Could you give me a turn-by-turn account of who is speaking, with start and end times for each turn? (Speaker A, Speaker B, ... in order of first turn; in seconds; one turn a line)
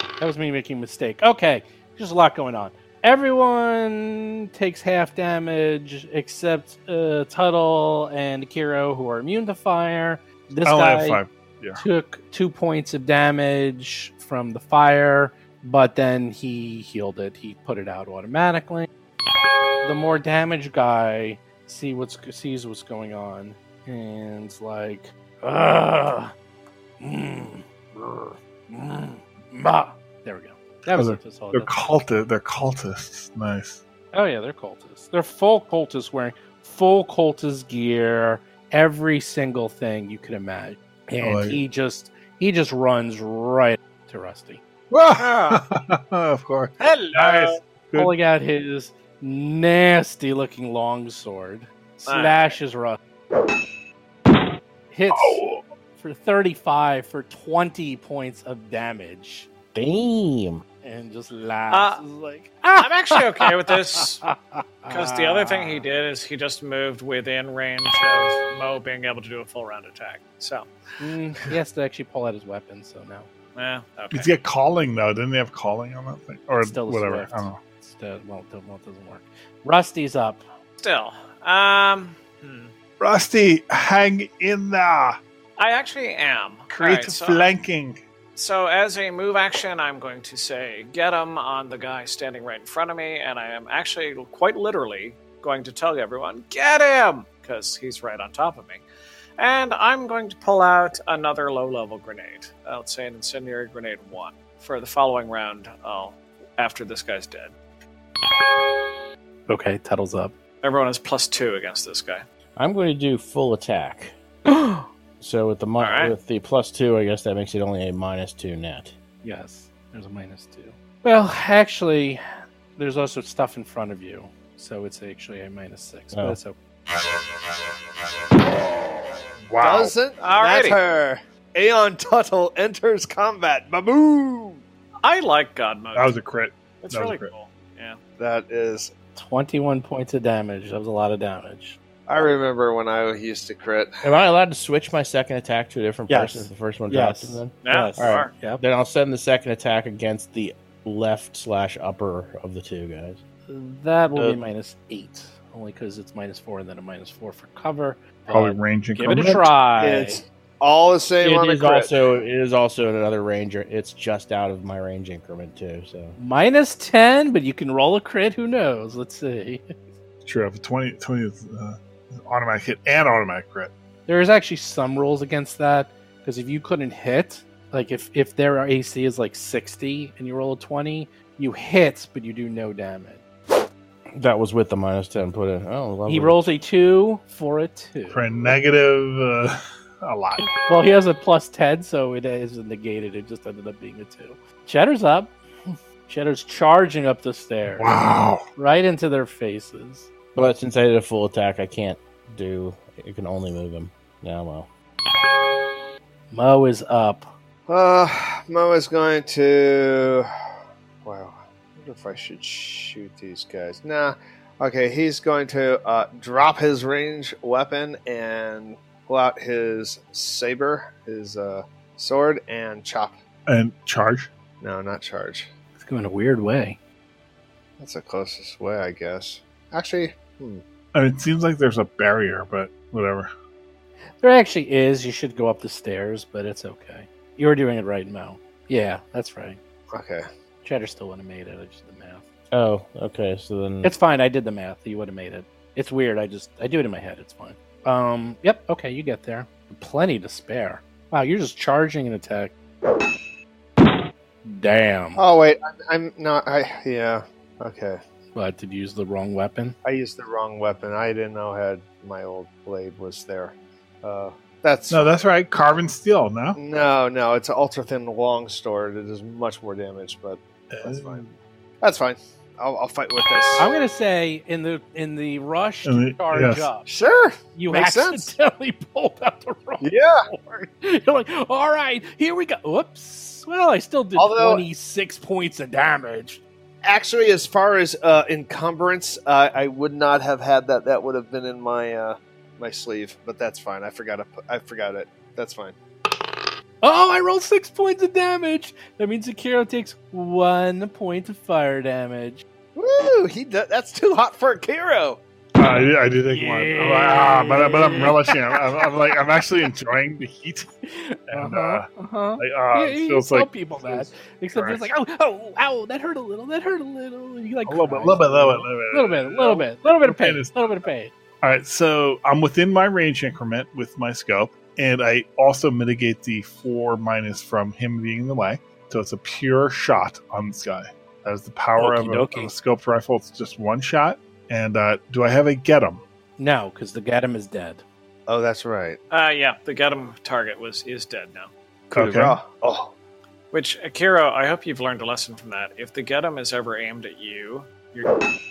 Speaker A: 0.2-11.2
Speaker B: 10.7-11.8
Speaker A: 11.8-18.9
Speaker A: 19.8-26.3
Speaker A: 27.0-31.8
Speaker B: 30.9-33.8
Speaker A: 34.1-44.6
Speaker B: 41.2-41.6
Speaker B: 44.9-48.1
Speaker C: 45.2-45.6
Speaker C: 46.8-47.6
Speaker A: 48.0-53.0
Speaker C: 52.1-52.6
Speaker A: 54.9-55.4
Speaker B: 55.1-55.6
Speaker A: 56.0-59.5
Speaker D: 59.7-60.6
Speaker A: 60.8-65.8
Speaker C: 61.7-62.0
Speaker C: 62.8-64.2
Speaker C: 64.9-70.7
Speaker A: 71.0-73.3
Speaker C: 73.5-74.3
Speaker B: 74.1-77.6
Speaker A: 76.6-80.5
Speaker C: 80.8-82.7
Speaker B: 83.0-85.2
Speaker C: 85.6-87.5
Speaker B: 86.7-88.0
Speaker C: 88.4-98.8
Speaker C: 99.4-107.5
Speaker A: 109.5-110.3
Speaker C: 110.6-112.2
Speaker D: 112.6-114.1
Speaker A: 114.5-114.9
Speaker D: 115.2-119.0
Speaker C: 115.8-116.2
Speaker A: 119.2-122.2
Speaker A: 122.8-126.6
Speaker D: 126.1-126.4
Speaker B: 129.5-130.0
Speaker E: 129.6-134.6
Speaker C: 130.2-130.8
Speaker C: 135.0-136.2
Speaker B: 135.9-137.3
Speaker C: 136.8-138.0
Speaker E: 138.2-138.9
Speaker A: 139.2-141.8
Speaker E: 142.1-144.1
Speaker D: 144.0-153.2
Speaker A: 146.1-148.6
Speaker C: 147.6-148.3
Speaker A: 153.5-160.2
Speaker D: 154.1-154.4
Speaker B: 158.3-159.5
Speaker E: 159.8-162.2
Speaker D: 161.2-166.2
Speaker A: 166.2-169.7
Speaker B: 170.3-173.7
Speaker A: 174.1-183.2
Speaker D: 184.2-186.5
Speaker A: 186.1-188.3
Speaker B: 188.1-190.5
Speaker A: 190.6-197.9
Speaker B: 197.7-198.4
Speaker A: 198.6-200.1
Speaker D: 200.3-204.7
Speaker A: 206.3-207.3
Speaker E: 207.7-210.3
Speaker E: 211.1-223.2
Speaker B: 223.5-224.3
Speaker E: 224.6-225.5
Speaker A: 225.8-226.8
Speaker E: 227.8-230.6
Speaker B: 230.9-233.3
Speaker A: 234.2-239.6
Speaker E: 239.9-240.3
Speaker A: 240.6-242.2
Speaker D: 242.5-243.9
Speaker A: 243.8-252.5
Speaker A: 254.4-255.2
Speaker E: 255.2-258.0
Speaker A: 258.3-259.8
Speaker E: 259.8-265.2
Speaker B: 264.9-266.6
Speaker E: 266.6-271.2
Speaker B: 270.7-271.4
Speaker E: 271.8-273.7
Speaker A: 273.6-276.9
Speaker B: 275.9-276.7
Speaker E: 276.9-278.3
Speaker A: 277.6-286.4
Speaker E: 279.8-280.2
Speaker E: 284.2-284.6
Speaker E: 286.8-295.8
Speaker A: 296.8-302.4
Speaker E: 302.8-305.2
Speaker B: 305.6-310.7
Speaker A: 306.3-308.6
Speaker A: 310.9-321.1
Speaker B: 311.3-311.9
Speaker B: 312.4-314.9
Speaker B: 317.6-320.9
Speaker B: 321.4-336.0
Speaker A: 331.8-332.6
Speaker A: 336.4-337.8
Speaker E: 338.3-339.0
Speaker C: 339.1-341.5
Speaker B: 341.9-342.4
Speaker E: 341.9-342.9
Speaker C: 343.5-348.1